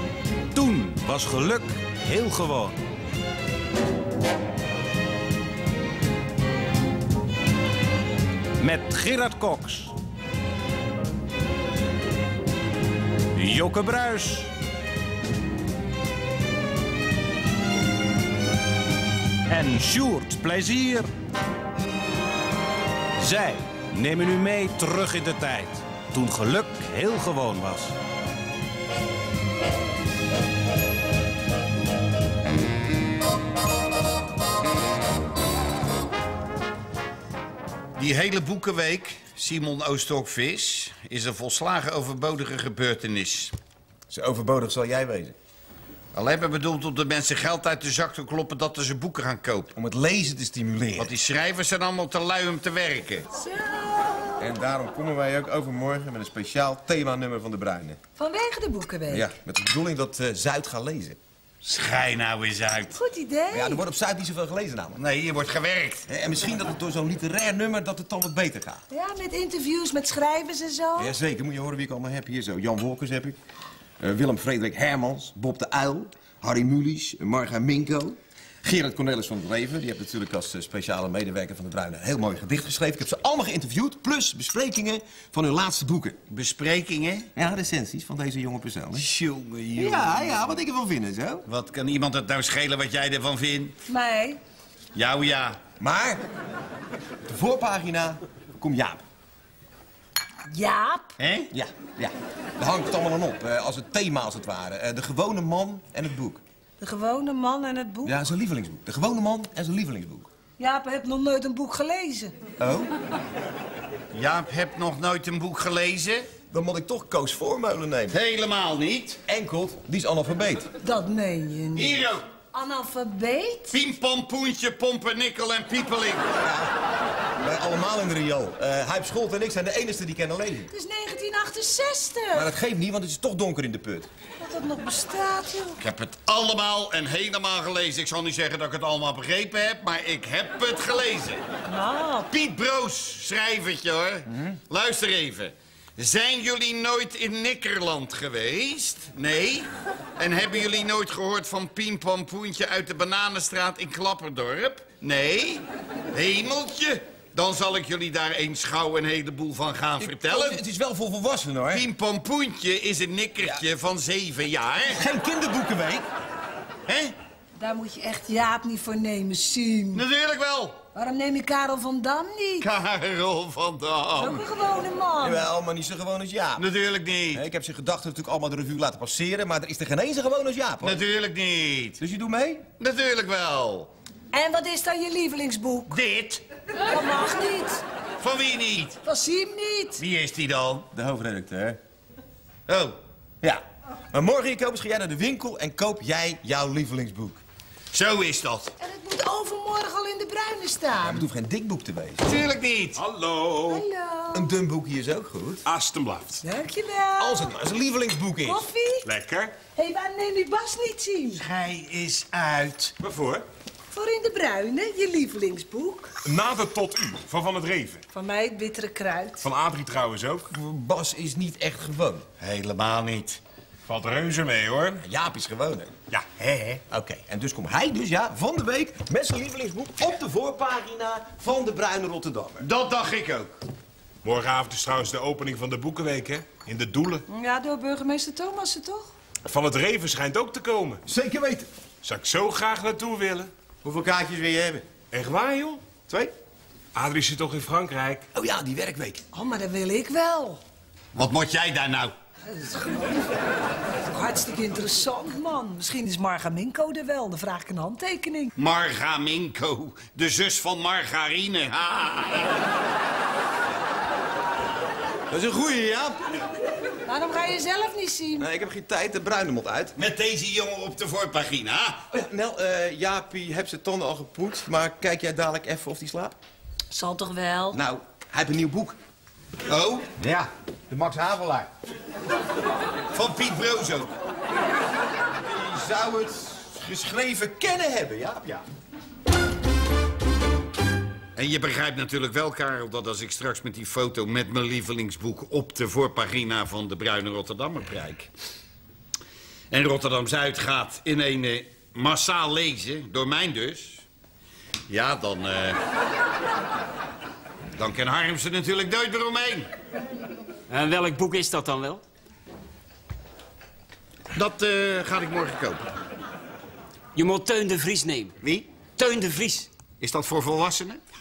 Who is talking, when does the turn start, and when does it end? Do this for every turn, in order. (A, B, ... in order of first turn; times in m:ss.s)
0:00.5-0:02.8 A
0:08.6-0:09.9 A
0:13.3-0:14.5 A
0:19.5-0:21.1 A
0:23.2-0:28.0 A
0:38.0-0:43.5 B
0:44.1-0:45.3 C
0:46.1-0:49.7 B
0:49.7-0:51.1 C
0:51.0-0:53.3 B
0:53.4-0:54.4 D
0:54.4-0:58.0 C
0:58.2-0:59.3 D
0:59.1-1:01.2 C
1:01.6-1:02.9 B
1:02.9-1:03.8 D
1:03.5-1:05.0 C
1:04.9-1:06.1 B
1:06.1-1:08.8 C
1:08.9-1:11.1 D
1:11.0-1:13.4 C
1:14.0-1:26.2 C
1:26.3-1:27.3 B
1:27.4-1:29.1 C
1:29.0-1:30.4 B
1:29.8-1:31.4 C
1:31.4-1:33.7 B
1:33.9-1:34.4 D
1:34.9-1:35.6 B
1:35.8-1:36.2 C
1:37.2-1:39.0 C
1:40.5-1:41.1 D
1:41.2-1:41.5 B
1:41.5-1:46.4 C
1:46.8-1:48.2 D
1:48.0-1:50.3 C
1:50.6-1:52.3 D
1:52.6-1:52.9 C
1:54.1-1:56.3 B
1:56.5-1:58.2 C
1:58.1-1:59.2 B
1:59.3-2:00.7 C
2:00.8-2:02.0 D
2:01.8-2:02.2 B
2:02.5-2:03.7 D
2:03.7-2:06.4 B
2:06.4-2:06.7 C
2:07.4-2:10.7 C
2:10.7-2:12.5 D
2:12.3-2:14.1 C
2:14.4-2:15.8 D
2:15.8-2:21.4 B
2:21.6-2:22.3 D
2:22.3-2:40.6 B
2:24.3-2:24.6 C
2:40.0-2:41.9 C
2:41.7-2:45.0 B
2:44.9-2:46.0 C
2:46.9-2:47.1 B
2:47.6-2:50.0 D
2:49.9-2:50.8 B
2:50.9-2:52.7 D
2:52.6-2:54.4 B
2:54.2-2:55.4 D
2:55.2-2:56.6 C
2:56.6-2:57.4 B
2:57.3-3:01.0 C
3:00.8-3:02.0 B
3:02.0-3:02.6 C
3:02.8-3:03.9 B
3:04.3-3:06.0 D
3:05.9-3:06.4 B
3:06.9-3:07.8 D
3:08.2-3:09.0 B
3:09.0-3:10.0 D
3:10.0-3:10.9 B
3:10.9-3:11.8 C
3:12.7-3:13.0 B
3:13.4-3:17.4 C
3:17.9-3:18.7 B
3:18.8-3:21.2 D
3:21.0-3:22.3 C
3:22.2-3:23.0 B
3:22.9-3:23.8 E
3:23.6-3:24.5 D
3:24.3-3:25.6 C
3:25.6-3:26.4 E
3:26.4-3:27.5 D
3:27.2-3:28.6 C
3:28.4-3:29.1 D
3:29.0-3:29.5 E
3:29.7-3:31.4 D
3:31.3-3:32.9 B
3:33.0-3:33.4 E
3:33.9-3:36.1 D
3:36.2-3:38.0 E
3:38.1-3:39.5 D
3:39.4-3:40.5 E
3:40.5-3:42.2 C
3:42.4-3:43.4 B
3:43.9-3:45.0 E
3:45.0-3:45.9 C
3:46.4-3:47.2 B
3:47.1-3:52.7 C
3:52.6-3:53.5 B
3:54.2-3:57.2 E
3:57.3-3:59.1 D
3:59.4-4:01.0 E
4:01.1-4:01.7 C
4:02.0-4:03.5 E
4:03.8-4:04.9 C
4:05.1-4:05.9 E
4:06.1-4:06.3 C
4:06.9-4:08.2 E
4:08.3-4:09.2 C
4:09.3-4:10.6 D
4:11.1-4:12.1 B
4:12.5-4:13.2 D
4:14.1-4:18.5 D
4:18.6-4:22.6 B
4:25.3-4:26.2 C
4:27.0-4:28.5 D
4:28.4-4:29.9 C
4:30.0-4:32.0 B
4:32.1-4:36.4 C
4:36.9-4:37.8 D
4:37.7-4:39.0 C
4:39.7-4:40.2 B
4:40.2-4:41.7 C
4:41.0-4:41.3 B
4:43.1-4:44.1 B
4:45.4-4:48.6 C
4:51.4-4:58.3 B
4:59.7-5:04.0 B
5:04.9-5:05.8 B
5:07.8-5:09.7 B
5:10.7-5:12.0 F
5:14.3-5:15.8 B
5:17.1-5:18.4 F
5:18.4-5:18.7 B
5:18.9-5:19.7 F
5:20.0-5:21.0 B